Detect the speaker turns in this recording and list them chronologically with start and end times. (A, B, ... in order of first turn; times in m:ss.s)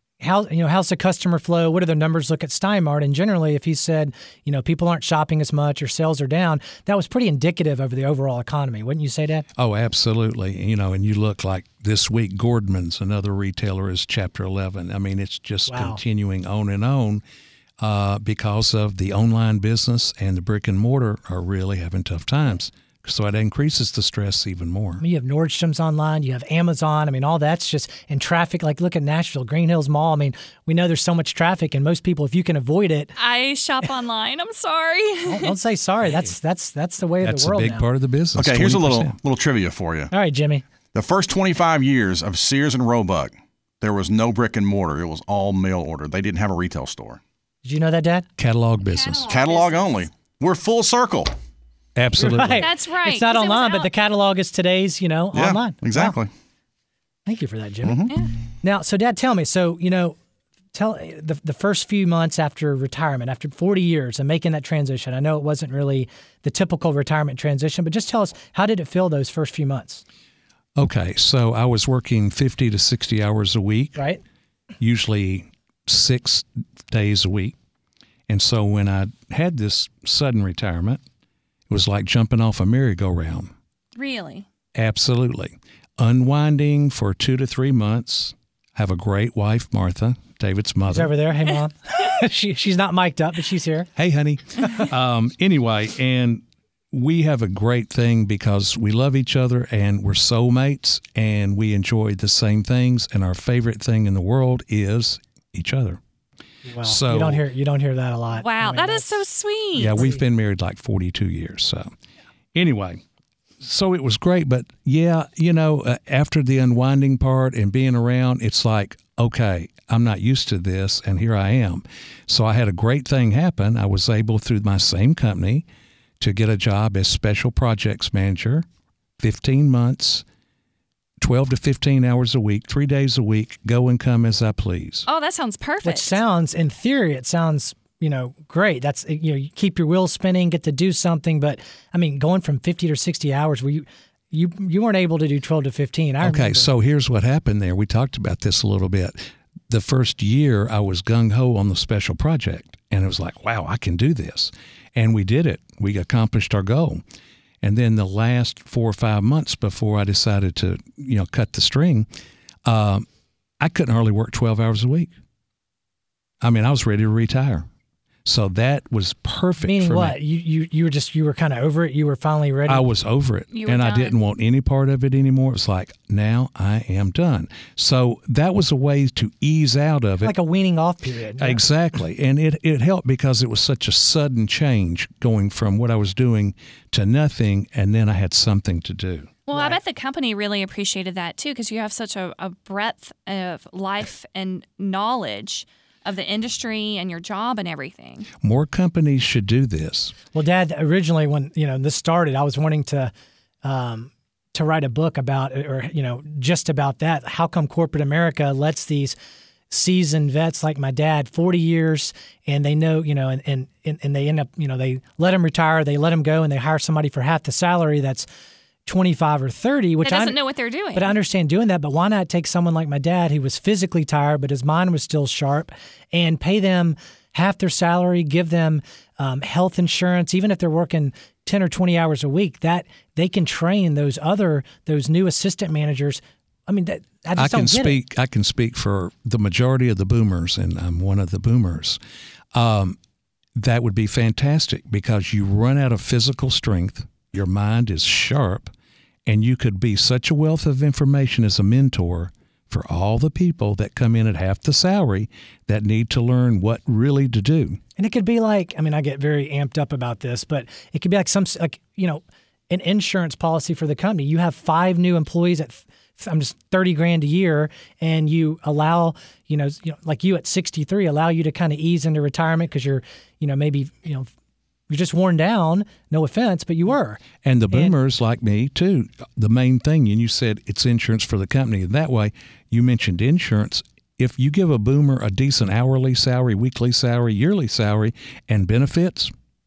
0:00.2-0:09.4 A
0:09.6-0:17.2 B
0:15.7-0:16.0 A
0:17.8-0:25.0 B
0:25.0-0:33.1 A
0:33.2-0:35.5 C
0:35.2-0:37.9 A
0:37.2-0:39.2 B
0:38.4-0:40.1 D
0:40.1-0:40.6 A
0:40.9-0:47.2 D
0:47.6-0:48.2 A
0:48.4-0:49.3 B
0:48.8-0:50.0 C
0:49.3-0:51.3 D
0:52.0-0:52.7 B
0:52.2-0:56.2 A
0:52.5-0:53.9 C
0:55.3-0:56.3 D
0:57.2-1:00.2 A
0:57.8-0:58.1 D
1:00.7-1:10.0 A
1:10.8-1:14.0 B
1:14.0-1:14.2 A
1:14.8-1:17.6 B
1:18.3-1:21.0 B
1:21.7-1:23.5 B
1:24.0-1:24.4 C
1:24.7-1:31.1 B
1:30.9-1:33.9 A
1:34.0-1:46.0 B
1:46.6-1:49.2 A
1:46.8-1:47.4 B
1:48.4-1:50.1 C
1:49.8-1:51.9 B
1:52.5-1:53.0 B
1:53.6-2:05.6 B
2:06.2-2:08.6 B
2:09.2-2:10.2 B
2:11.2-2:15.1 B
2:15.1-2:16.2 C
2:15.8-2:26.7 A
2:26.2-2:37.0 B
2:37.6-2:42.1 B
2:42.6-2:43.0 B
2:43.6-2:45.1 B
2:46.4-2:47.6 B
2:48.2-2:50.2 B
2:49.6-2:52.9 A
2:52.7-3:00.3 B
2:53.5-2:54.1 C
3:00.2-3:01.6 A
3:01.4-3:09.3 B
3:09.4-3:18.3 C
3:09.5-3:09.8 A
3:18.4-3:20.1 B
3:20.3-3:23.1 A
3:23.6-3:29.2 A
3:29.7-3:38.2 A
3:38.8-3:40.4 A
3:40.0-3:41.1 C
3:40.9-3:58.0 A
3:57.4-4:02.0 B
4:02.5-4:03.0 B
4:03.5-4:08.7 B
4:09.2-4:17.8 B
4:18.0-4:34.3 A
4:34.9-4:37.9 A
4:37.4-4:49.3 B